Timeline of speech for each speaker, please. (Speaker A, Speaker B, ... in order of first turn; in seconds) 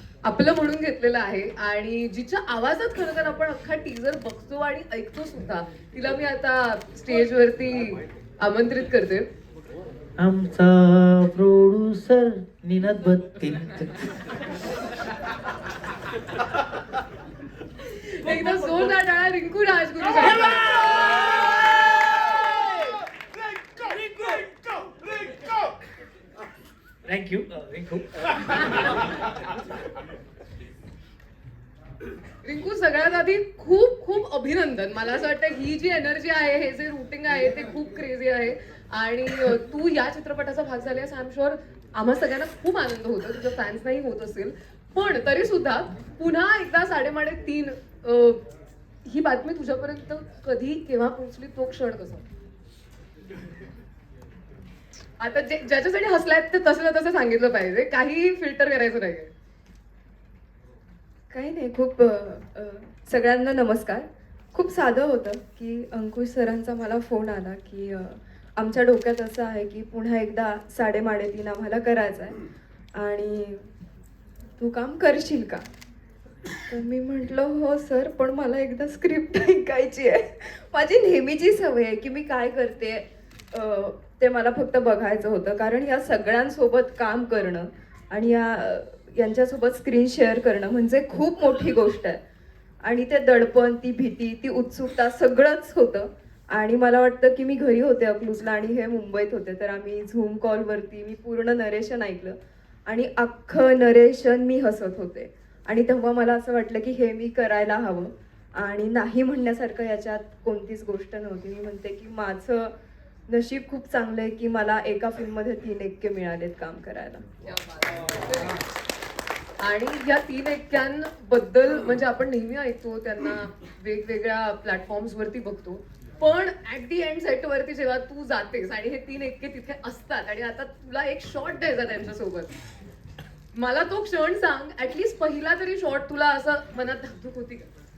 Speaker A: 0.2-9.3, 18.0-20.7, 32.4-48.4, 49.0-52.2, 55.2-59.3, 117.5-118.5, 119.6-132.5, 133.5-137.7
Speaker B: 10.2-14.2, 18.2-19.0, 27.1-28.6
Speaker C: 61.3-72.4, 73.0-73.7, 74.6-75.6, 76.7-92.2, 92.8-112.7, 113.3-117.4